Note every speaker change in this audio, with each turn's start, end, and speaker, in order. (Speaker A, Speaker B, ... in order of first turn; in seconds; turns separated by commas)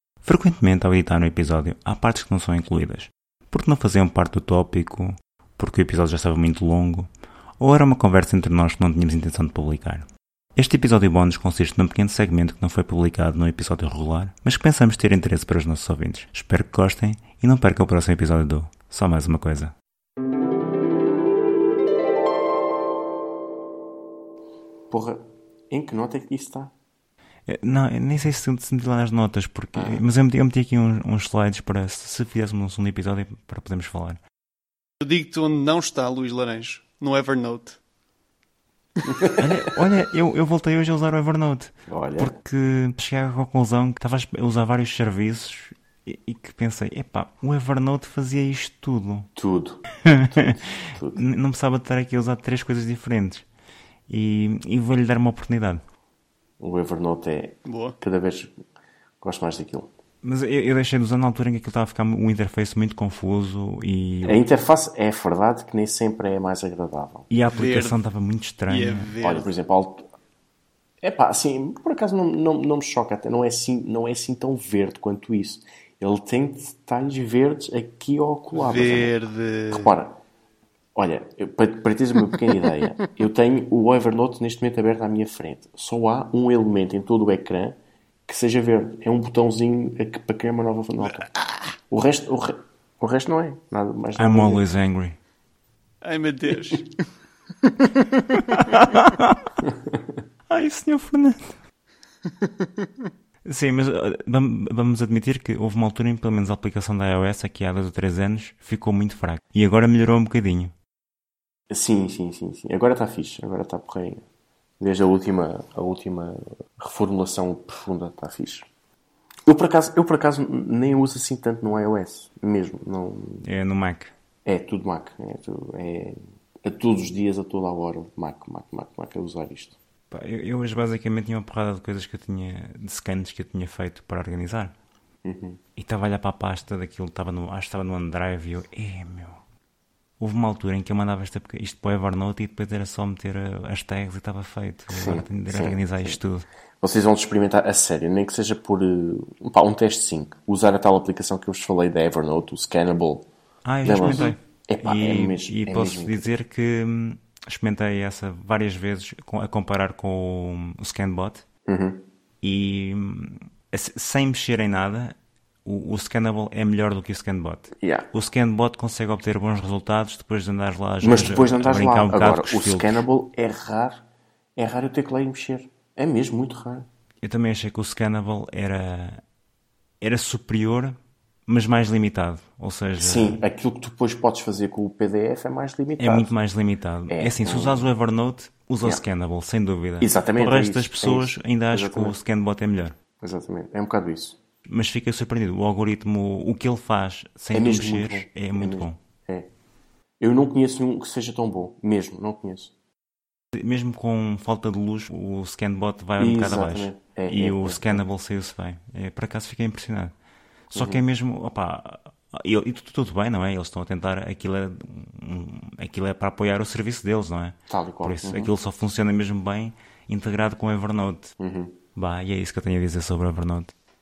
Speaker A: 0.2-19.7, Speaker B: 24.9-26.7, Speaker A: 27.4-34.2, Speaker B: 29.7-30.0, Speaker C: 35.0-37.8, Speaker A: 39.3-49.3, Speaker B: 41.9-42.3, Speaker B: 49.4-51.2, Speaker A: 50.0-53.5, Speaker A: 54.1-55.8, Speaker B: 56.6-58.5, Speaker C: 57.6-58.0, Speaker B: 59.2-59.9, Speaker A: 60.2-64.5, Speaker B: 64.2-67.3, Speaker A: 67.3-69.1, Speaker C: 67.5-68.0, Speaker C: 68.7-69.5, Speaker B: 69.2-70.0, Speaker B: 71.0-79.1, Speaker C: 78.5-79.9, Speaker B: 79.7-80.2, Speaker B: 81.0-87.7, Speaker B: 88.2-91.3, Speaker B: 91.9-94.6, Speaker A: 94.2-95.2, Speaker C: 96.0-97.0, Speaker C: 97.6-98.6, Speaker A: 98.3-99.5, Speaker A: 100.5-101.5, Speaker C: 102.4-102.9, Speaker A: 103.4-110.7, Speaker B: 111.7-114.2, Speaker B: 114.8-118.6, Speaker B: 119.5-123.4, Speaker A: 123.4-124.1, Speaker B: 124.5-129.8, Speaker A: 130.1-134.7, Speaker B: 135.2-135.6, Speaker A: 135.8-139.4, Speaker A: 140.2-146.4, Speaker B: 144.9-146.2, Speaker B: 146.8-153.2, Speaker A: 153.6-161.4, Speaker B: 153.8-156.3, Speaker B: 161.7-162.0, Speaker A: 162.4-173.0, Speaker B: 167.8-168.1, Speaker B: 171.0-174.0, Speaker B: 174.6-176.9, Speaker A: 177.2-179.2, Speaker A: 180.0-183.4, Speaker B: 183.0-186.3, Speaker A: 186.0-192.9, Speaker B: 187.1-187.9, Speaker B: 190.0-192.2, Speaker B: 193.2-194.4, Speaker A: 194.7-199.0, Speaker B: 197.5-199.5, Speaker B: 200.2-202.7, Speaker A: 203.6-210.1, Speaker B: 206.2-208.0, Speaker B: 210.7-211.0, Speaker A: 210.7-221.3, Speaker B: 217.7-218.5, Speaker B: 221.4-221.8, Speaker A: 221.9-223.7